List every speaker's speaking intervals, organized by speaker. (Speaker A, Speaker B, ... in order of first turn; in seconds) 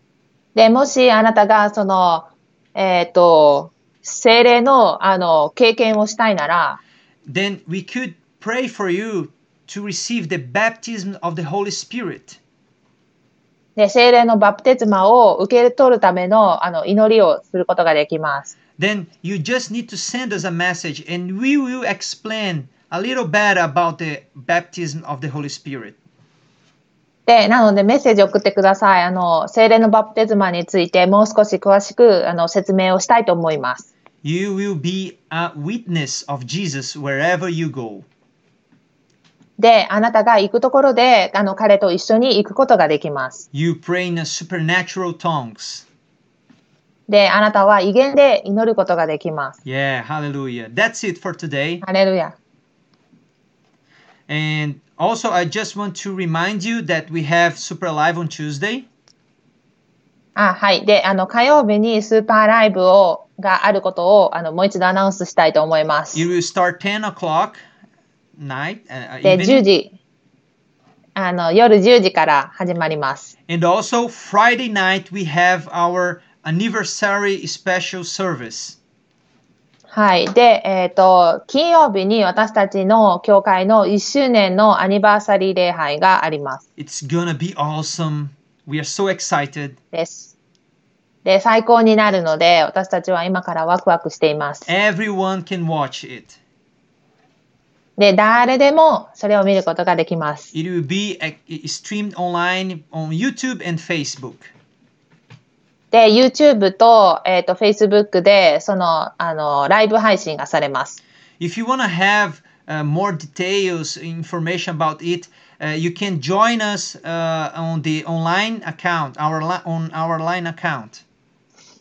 Speaker A: 0.6-6.8, 13.8-18.5, 27.3-33.9, 39.6-43.5, 47.1-49.6, 51.8-52.4, 60.4-66.3, 69.2-69.9, 71.2-73.3, 79.9-86.6, 89.9-90.3, 91.2-94.7, 98.0-100.5, 105.9-111.0
Speaker B: 7.3-12.4, 18.8-26.0, 34.2-38.1, 43.5-45.9, 49.6-51.8, 54.3-58.9, 66.1-67.6, 68.4-69.7, 73.5-78.8, 86.8-89.8, 94.7-96.4, 100.5-104.5, 111.4-121.0